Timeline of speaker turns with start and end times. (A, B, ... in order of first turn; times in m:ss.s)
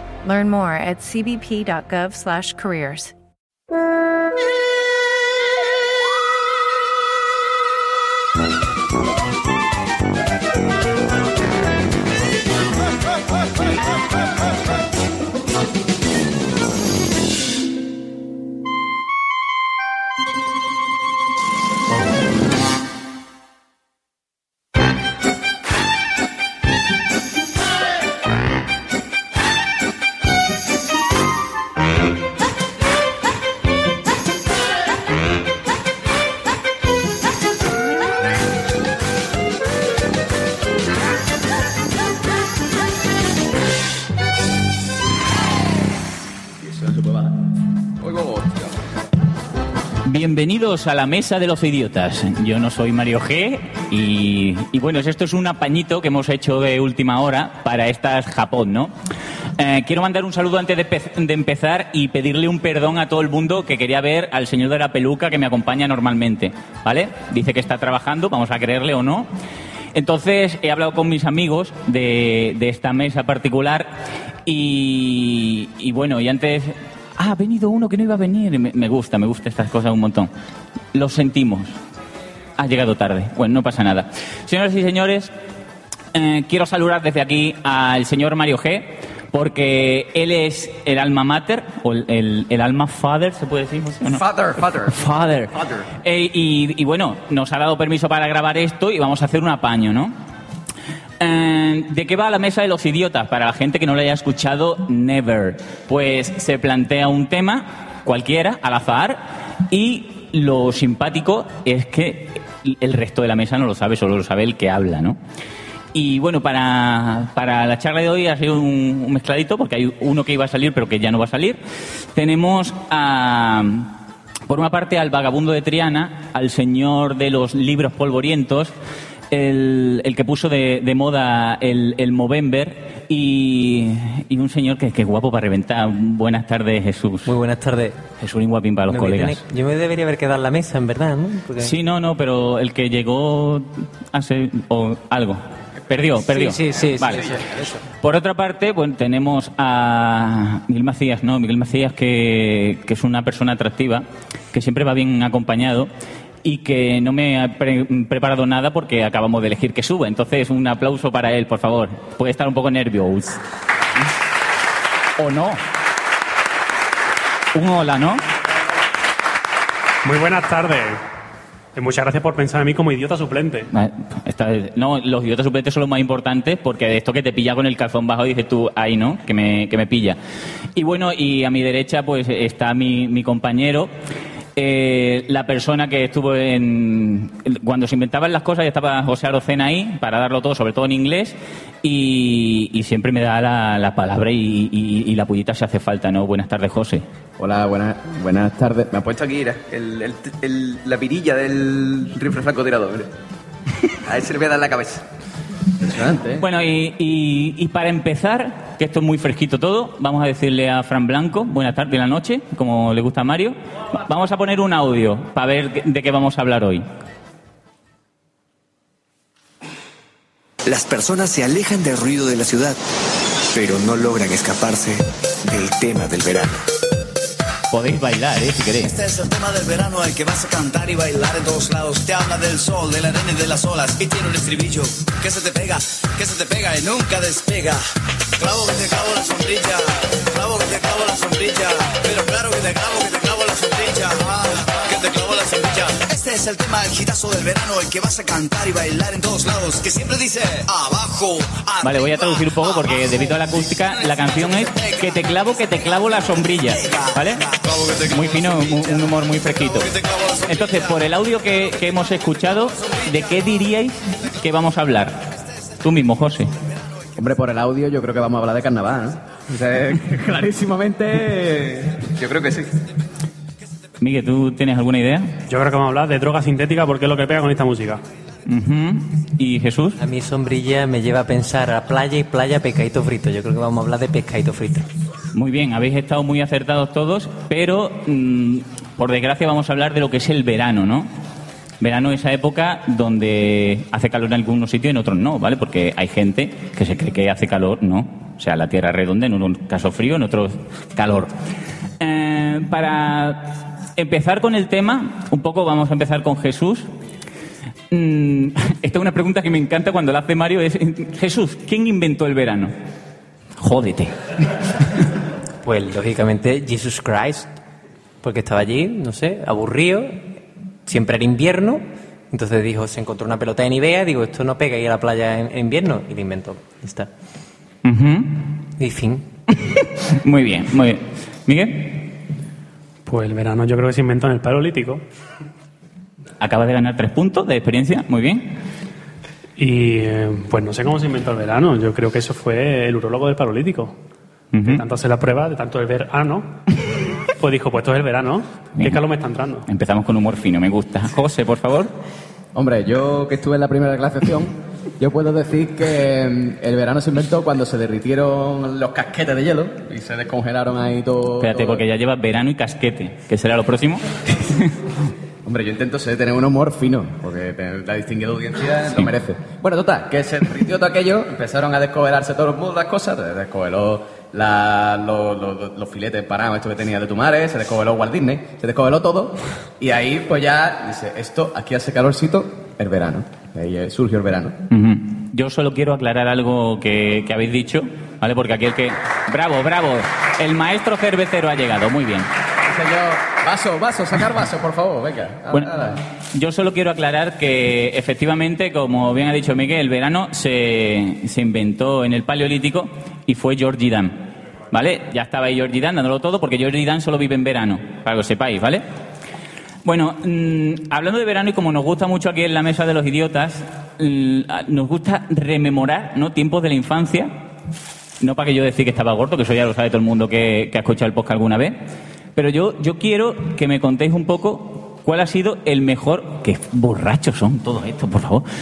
0:00.2-0:03.1 A
0:46.6-0:47.3 B
0:48.0-0:48.7 B
0:50.0-0:58.9 C
0:59.6-1:09.3 C
1:09.9-1:13.9 C
1:14.4-1:20.3 C
1:20.9-1:21.7 C
1:22.6-1:25.3 C
1:26.1-1:34.2 C
1:34.8-1:40.1 C
1:41.2-1:55.2 C
1:55.9-2:01.6 C
2:02.1-2:03.9 C
2:04.5-2:08.7 C
2:09.3-2:17.3 C
2:17.2-2:18.0 D
2:18.2-2:19.4 C
2:18.9-2:21.7 D
2:21.6-2:27.3 C
2:26.3-2:27.8 D
2:28.0-2:35.9 C
2:36.4-2:43.4 C
2:45.2-2:45.6 C
2:47.5-2:48.2 C
2:50.0-2:51.0 E
2:51.7-2:53.7 E
2:53.7-3:00.2 C
3:00.7-3:03.9 C
3:04.6-3:17.0 C
3:17.4-3:23.1 B
3:24.0-3:25.0 B
3:25.8-3:26.4 B
3:26.4-3:36.8 C
3:40.6-3:42.8 F
3:43.4-3:46.6 F
3:47.7-3:48.9 C
3:48.8-3:57.8 G
3:58.4-4:12.5 G
4:11.8-4:17.5 C
4:17.5-4:18.8 G
4:18.0-4:19.9 C
4:19.7-4:20.5 G
4:20.4-4:26.5 C
4:27.2-4:32.7 B
4:34.0-4:35.4 C
4:35.5-4:38.0 E
4:38.4-4:40.0 C
4:40.0-4:44.9 D
4:45.3-4:51.1 C
4:51.8-5:01.3 C
5:02.0-5:06.9 C
5:07.9-5:12.7 C
5:13.6-5:14.1 C
5:15.6-5:17.5 D
5:18.2-5:20.2 D
5:20.8-5:27.1 D
5:27.8-5:28.4 C
5:28.8-5:29.3 D
5:29.7-5:32.1 C
5:33.0-5:35.0 E
5:36.4-5:38.5 C
5:39.6-5:44.0 E
5:44.5-5:44.8 C
5:44.6-5:46.6 E
5:47.4-5:49.6 E
5:49.6-5:51.9 C
5:52.5-6:01.8 B
6:01.4-6:04.7 C
6:05.4-6:24.6 B
6:24.7-6:32.3 C
6:32.7-6:36.0 B
6:35.5-6:35.8 C
6:36.3-6:48.8 C
6:49.8-6:57.3 C
6:58.2-7:01.8 C
7:02.4-7:08.4 C